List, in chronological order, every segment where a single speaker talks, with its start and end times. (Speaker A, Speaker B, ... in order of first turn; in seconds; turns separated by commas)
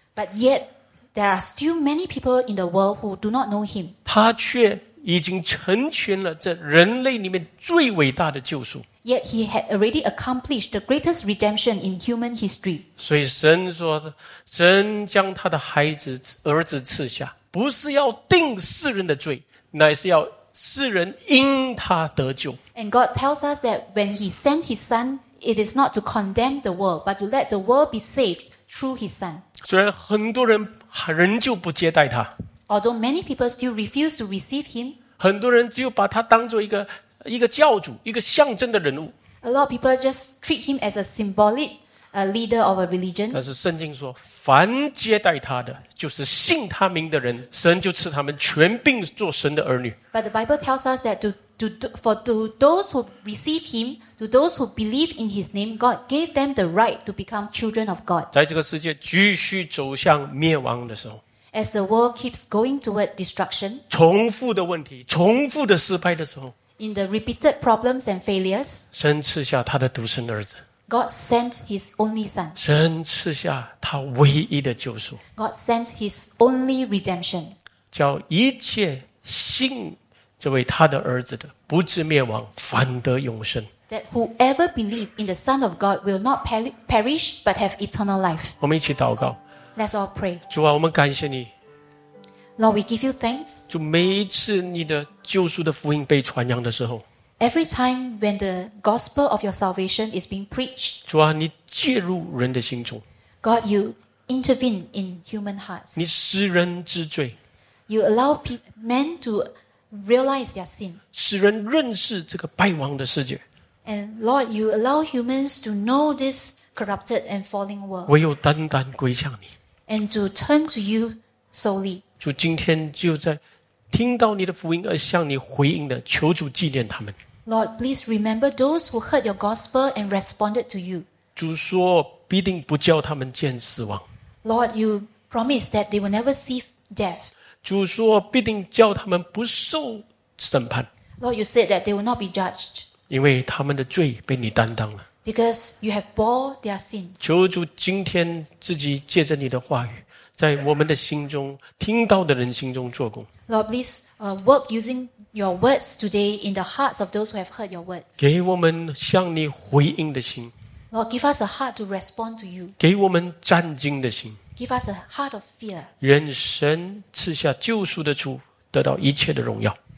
Speaker A: 0.1-3.9, Speaker B: 4.0-8.8, Speaker A: 9.0-12.8, Speaker B: 13.0-22.6, Speaker A: 22.7-29.4, Speaker B: 29.6-32.3, Speaker A: 32.7-35.0, Speaker B: 35.2-39.1, Speaker A: 39.4-43.4, Speaker B: 43.3-50.0, Speaker A: 50.1-58.3, Speaker B: 58.3-61.2, Speaker A: 61.5-63.8, Speaker B: 63.9-66.5, Speaker A: 66.8-68.8, Speaker B: 68.9-70.6, Speaker A: 70.9-72.6, Speaker B: 72.5-75.2, Speaker A: 75.3-77.5, Speaker B: 77.9-83.7, Speaker A: 83.9-88.5, Speaker B: 88.6-89.4, Speaker A: 89.8-90.4, Speaker B: 90.5-91.5, Speaker A: 92.6-93.7, Speaker B: 93.7-97.0, Speaker A: 97.4-101.0, Speaker B: 101.0-103.0, Speaker A: 103.4-106.0, Speaker B: 106.0-107.4, Speaker A: 107.9-111.0, Speaker B: 111.1-113.4, Speaker A: 113.8-118.1, Speaker B: 118.1-119.5, Speaker A: 119.9-122.0, Speaker B: 122.2-127.2, Speaker A: 127.5-131.1, Speaker B: 131.3-134.0, Speaker A: 134.4-137.3, Speaker B: 137.6-140.9, Speaker A: 141.2-142.8, Speaker B: 143.1-145.1, Speaker A: 145.2-147.2, Speaker B: 147.2-153.3, Speaker A: 153.5-158.2, Speaker B: 158.2-160.5, Speaker A: 160.9-162.7, Speaker B: 162.8-164.4, Speaker A: 164.6-165.9, Speaker B: 166.0-169.8